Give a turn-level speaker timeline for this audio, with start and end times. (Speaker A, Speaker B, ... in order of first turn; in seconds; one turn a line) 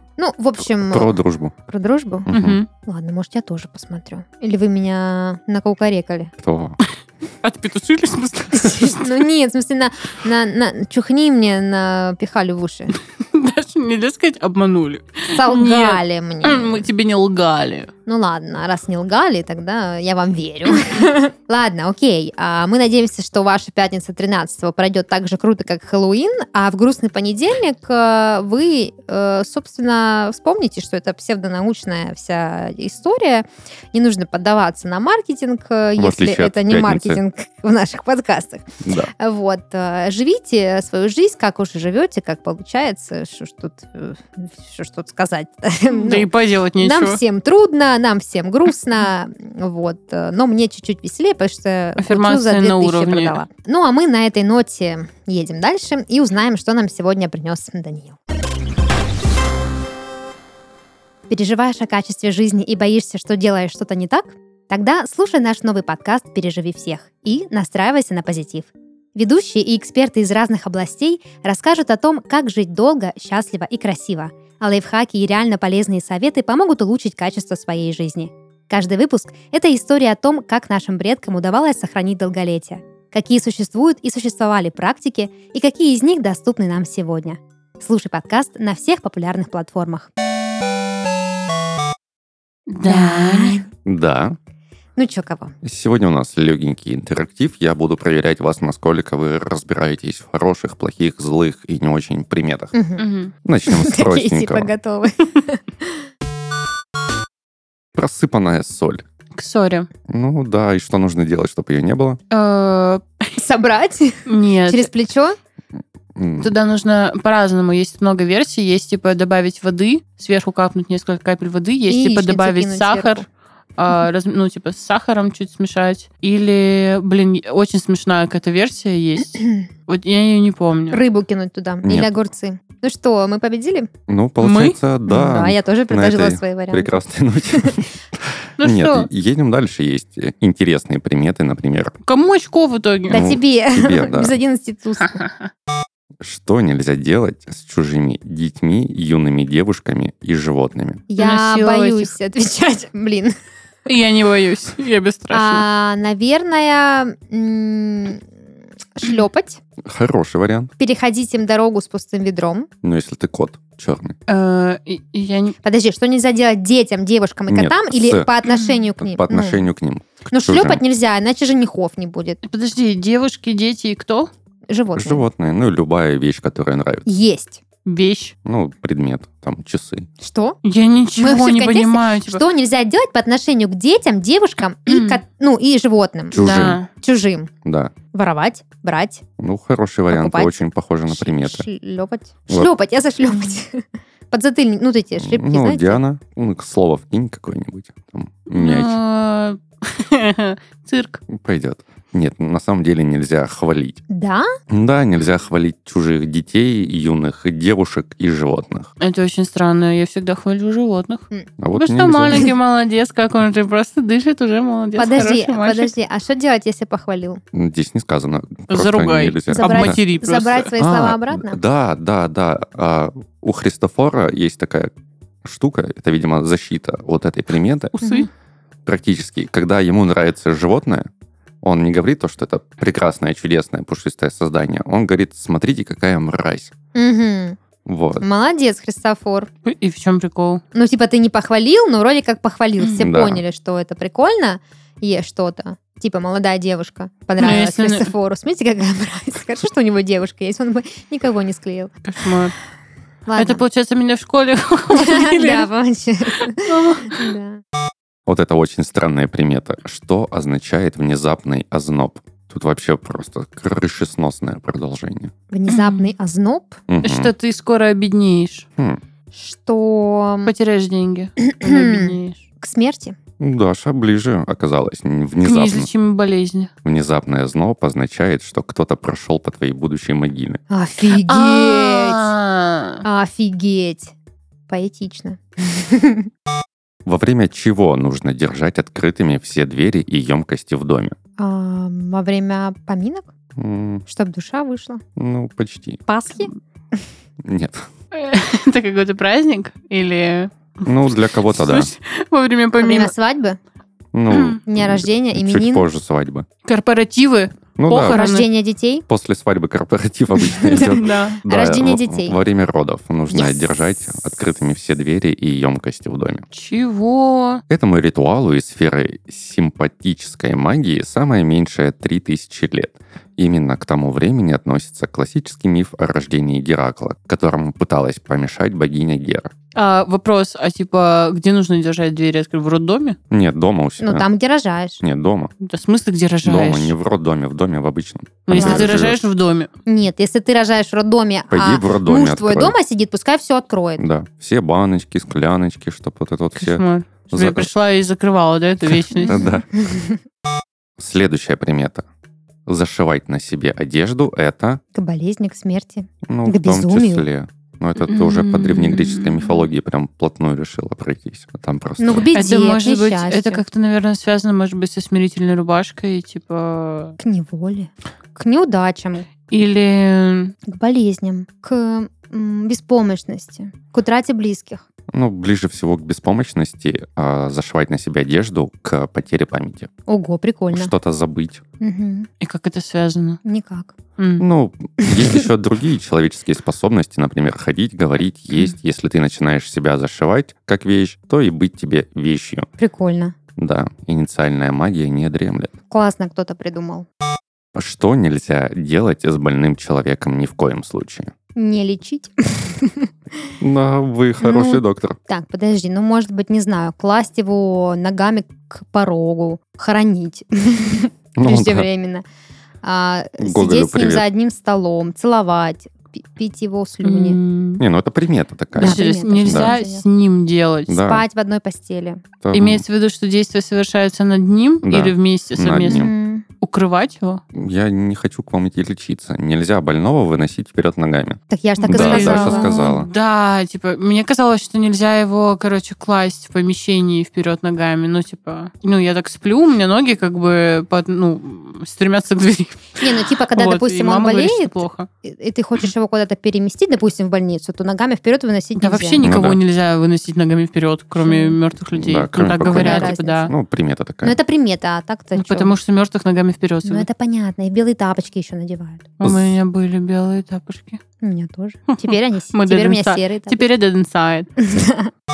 Speaker A: 0.2-2.3
Speaker B: 0.8-1.5
Speaker B: 2.3-2.6
Speaker C: 2.3-2.7
Speaker A: 2.9-6.3
Speaker B: 6.4-6.8
Speaker C: 7.4-9.2
Speaker A: 8.5-13.0
Speaker C: 13.3-17.9
Speaker A: 15.3-16.9
Speaker A: 18.1-46.3
Speaker B: 36.0-37.2
Speaker B: 38.8-39.1
Speaker C: 45.9-47.2
Speaker A: 46.8-58.2
Speaker C: 52.0-53.4
Speaker A: 61.3-90.1
Speaker C: 92.7-93.7
Speaker A: 92.8-93.7
Speaker B: 93.8-94.4
Speaker A: 95.0-95.5
Speaker B: 95.6-102.8
Speaker A: 102.7-103.0
Speaker C: 103.0-103.3
Speaker B: 103.5-104.7
Speaker A: 103.7-106.0
Speaker B: 108.0-109.0
Speaker C: 109.4-109.9
Speaker B: 110.1-112.2
Speaker C: 112.3-113.3
Speaker A: 113.4-115.4
Speaker C: 114.3-114.9
Speaker B: 116.2-116.5
Speaker C: 116.4-123.3
Speaker A: 121.9-123.2
Speaker C: 123.8-131.0
Speaker A: 130.9-133.9
Speaker B: 131.8-132.1
Speaker B: 134.1-137.9
Speaker C: 134.4-134.8
Speaker A: 135.1-137.0
Speaker A: 137.5-137.8
Speaker C: 138.6-139.1
Speaker B: 138.6-141.9
Speaker C: 142.1-143.3
Speaker A: 143.1-145.2
Speaker B: 143.1-144.3
Speaker C: 145.1-145.5
Speaker B: 146.2-151.1
Speaker A: 151.1-153.3
Speaker C: 151.2-152.1
Speaker C: 153.9-155.7
Speaker A: 155.3-158.3
Speaker A: 158.9-159.6
Speaker B: 159.8-160.7
Speaker A: 160.8-162.7
Speaker B: 162.8-164.2
Speaker C: 164.3-165.6
Speaker A: 165.6-169.7
Speaker B: 167.5-168.3
Speaker B: 169.0-170.8
Speaker A: 170.3-172.4
Speaker C: 172.4-174.3
Speaker A: 174.7-175.2
Speaker B: 175.0-177.1
Speaker A: 177.1-177.6
Speaker C: 177.8-178.3
Speaker B: 178.4-180.1
Speaker A: 180.2-180.6
Speaker C: 180.6-182.4
Speaker A: 181.2-187.5
Speaker C: 184.9-185.2
Speaker B: 186.3-186.8
Speaker C: 186.4-186.9
Speaker B: 187.7-187.9
Speaker A: 188.1-189.2
Speaker B: 189.4-191.7
Speaker A: 190.1-196.0
Speaker B: 195.2-199.0
Speaker C: 198.5-201.2
Speaker B: 201.3-204.0
Speaker A: 204.1-204.5
Speaker B: 204.7-208.9
Speaker C: 209.0-215.9
Speaker B: 211.6-212.5
Speaker A: 215.0-217.4
Speaker B: 217.5-220.0
Speaker C: 218.7-220.7
Speaker A: 219.5-221.6
Speaker B: 220.8-224.9
Speaker B: 225.4-228.0
Speaker C: 228.0-228.3
Speaker A: 228.0-228.3
Speaker B: 228.9-231.1
Speaker B: 231.6-236.7
Speaker A: 236.9-237.6
Speaker B: 237.8-238.2
Speaker A: 238.2-239.5
Speaker C: 239.7-240.6
Speaker A: 240.7-251.9
Speaker C: 242.8-243.1
Speaker B: 243.0-243.4
Speaker C: 247.4-248.1
Speaker C: 252.1-252.5
Speaker A: 253.3-253.7
Speaker C: 253.4-255.7
Speaker A: 254.9-257.6
Speaker C: 256.4-257.3
Speaker B: 258.3-265.3
Speaker A: 265.5-266.8
Speaker C: 265.7-266.1
Speaker B: 266.9-267.3
Speaker C: 267.0-268.7
Speaker A: 269.3-270.5
Speaker C: 270.5-272.5
Speaker A: 271.4-273.2
Speaker B: 273.4-275.9
Speaker C: 275.4-276.7
Speaker B: 276.8-280.6
Speaker A: 280.7-282.3
Speaker C: 281.1-283.0
Speaker A: 283.0-284.1
Speaker A: 284.7-286.3
Speaker B: 287.1-291.2
Speaker A: 291.4-293.3
Speaker B: 293.6-294.0
Speaker A: 294.1-295.0
Speaker B: 295.2-296.0
Speaker A: 296.1-297.0
Speaker B: 297.4-297.9
Speaker C: 298.1-303.1
Speaker B: 300.9-301.9
Speaker A: 302.8-303.6
Speaker B: 304.1-306.5
Speaker C: 304.3-304.6
Speaker A: 304.7-305.9
Speaker C: 306.6-308.5
Speaker B: 307.8-308.2
Speaker A: 308.1-309.1
Speaker B: 309.1-316.4
Speaker A: 310.5-312.4
Speaker C: 311.0-311.4
Speaker A: 313.3-313.8
Speaker C: 316.5-317.6
Speaker B: 317.7-329.5
Speaker C: 329.8-333.2
Speaker B: 333.3-334.3
Speaker A: 334.0-335.0
Speaker B: 335.0-335.5
Speaker C: 335.6-336.9
Speaker B: 336.4-339.2
Speaker C: 338.5-339.7
Speaker A: 338.5-339.0
Speaker A: 339.9-344.1
Speaker B: 341.5-342.8
Speaker B: 344.0-347.7
Speaker C: 346.6-349.6
Speaker B: 348.9-349.7
Speaker A: 349.2-350.2
Speaker B: 351.0-352.0
Speaker B: 352.7-354.8
Speaker A: 354.9-357.2
Speaker B: 356.2-362.3
Speaker C: 358.1-359.7
Speaker A: 362.0-363.6
Speaker C: 362.3-367.2
Speaker A: 367.2-369.3
Speaker C: 369.5-370.6
Speaker A: 370.7-374.8
Speaker B: 375.1-379.9
Speaker A: 380.1-380.9
Speaker B: 380.7-381.6
Speaker A: 381.8-382.3
Speaker C: 382.4-383.4
Speaker A: 383.4-383.9
Speaker C: 384.2-384.4
Speaker B: 384.4-392.7
Speaker A: 385.0-385.4
Speaker A: 392.8-393.4
Speaker B: 393.6-395.7
Speaker A: 395.9-397.1
Speaker B: 397.7-401.3
Speaker A: 401.6-403.1
Speaker B: 403.6-405.2
Speaker A: 404.4-412.3
Speaker B: 411.4-411.9
Speaker A: 412.8-417.4
Speaker B: 413.4-414.2
Speaker C: 417.0-417.8
Speaker B: 417.8-419.8
Speaker A: 418.8-420.0
Speaker C: 418.8-421.0
Speaker B: 420.9-421.2
Speaker A: 421.1-422.2
Speaker B: 422.4-422.8
Speaker C: 422.5-426.1
Speaker B: 424.8-426.1
Speaker A: 425.8-426.4
Speaker C: 426.6-427.4
Speaker B: 427.5-433.1
Speaker A: 431.5-432.9
Speaker C: 431.8-445.1
Speaker A: 443.0-449.2
Speaker C: 448.8-453.5
Speaker B: 449.2-449.6
Speaker A: 451.2-451.6
Speaker B: 451.9-454.4
Speaker A: 452.6-453.5
Speaker A: 454.2-455.7
Speaker C: 455.4-457.1
Speaker A: 456.8-459.1
Speaker C: 459.2-461.0
Speaker B: 459.2-459.6
Speaker A: 461.2-463.6
Speaker C: 461.9-464.5
Speaker A: 464.6-465.1